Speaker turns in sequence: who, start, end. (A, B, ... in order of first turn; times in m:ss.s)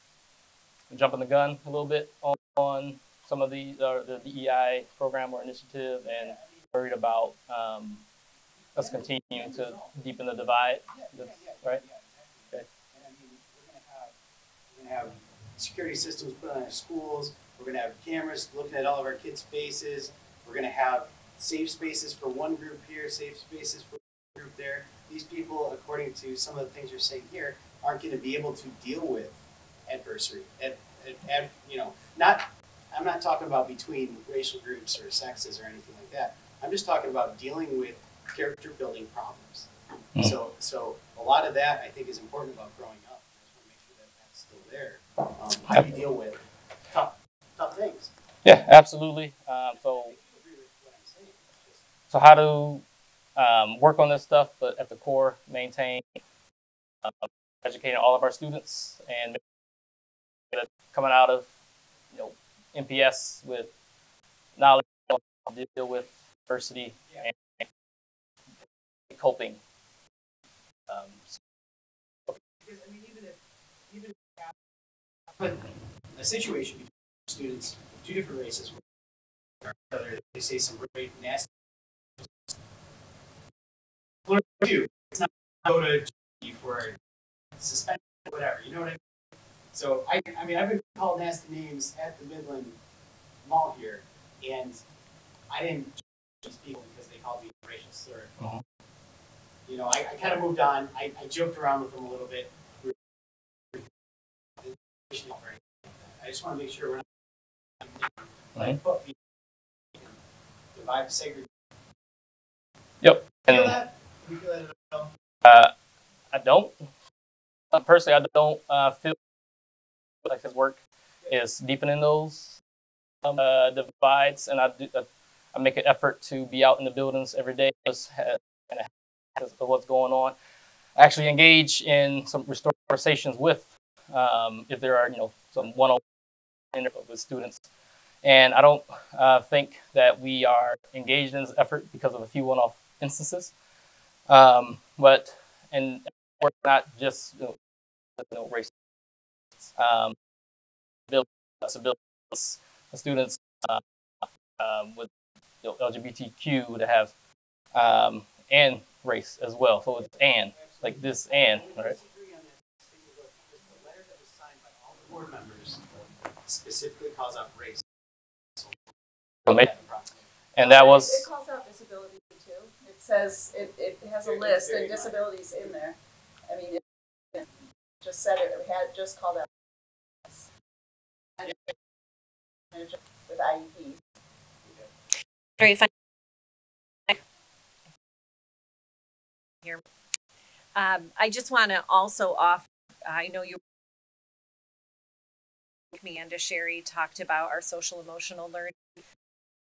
0:00.9-0:08.0 A
0:08.8-0:11.8 A
0:08.8-0:09.9 B
0:10.9-0:14.1 B
0:14.7-0:48.1 B
0:48.4-0:50.1 A
0:49.7-0:51.8 B
0:52.1-0:52.8 A
0:53.4-0:56.2 A
0:57.0-0:59.4 A
1:00.5-1:01.5 A
1:02.1-1:03.7 A
1:04.6-1:07.7 A
1:09.1-1:09.6 A
1:10.9-1:11.4 A
1:12.6-1:14.5 B
1:15.4-1:18.8 B
1:19.6-1:21.5 B
1:24.3-1:27.0 B
1:27.6-1:29.0 B
1:29.7-1:32.8 B
1:33.4-1:34.8 B
1:35.5-1:38.3 B
1:39.6-1:42.9 B
1:44.6-1:47.1 B
1:47.8-1:49.2 B
1:50.7-1:51.5 B
1:53.0-1:53.8 A
1:53.4-1:55.1 B
1:55.4-1:55.7 A
1:56.3-1:56.8 A
1:57.7-1:59.2 A
2:00.2-2:02.6 A
2:03.2-2:10.3 A
2:11.0-2:16.0 A
2:16.7-2:17.6 A
2:18.2-2:23.5 A
2:24.3-2:27.6 A
2:28.2-2:28.7 A
2:29.8-2:30.2 A
2:31.1-2:33.8 A
2:34.6-2:35.1 A
2:35.6-2:37.1 A
2:37.7-2:42.0 A
2:40.5-2:47.9 B
2:49.4-2:50.3 B
2:50.6-2:51.3 A
2:50.6-2:56.0 C
2:54.2-2:55.1 B
2:56.5-2:56.8 C
2:58.0-2:59.5 C
3:02.7-3:04.0 C
3:05.6-3:05.9 D
3:10.7-3:13.6 D
3:15.9-3:19.0 D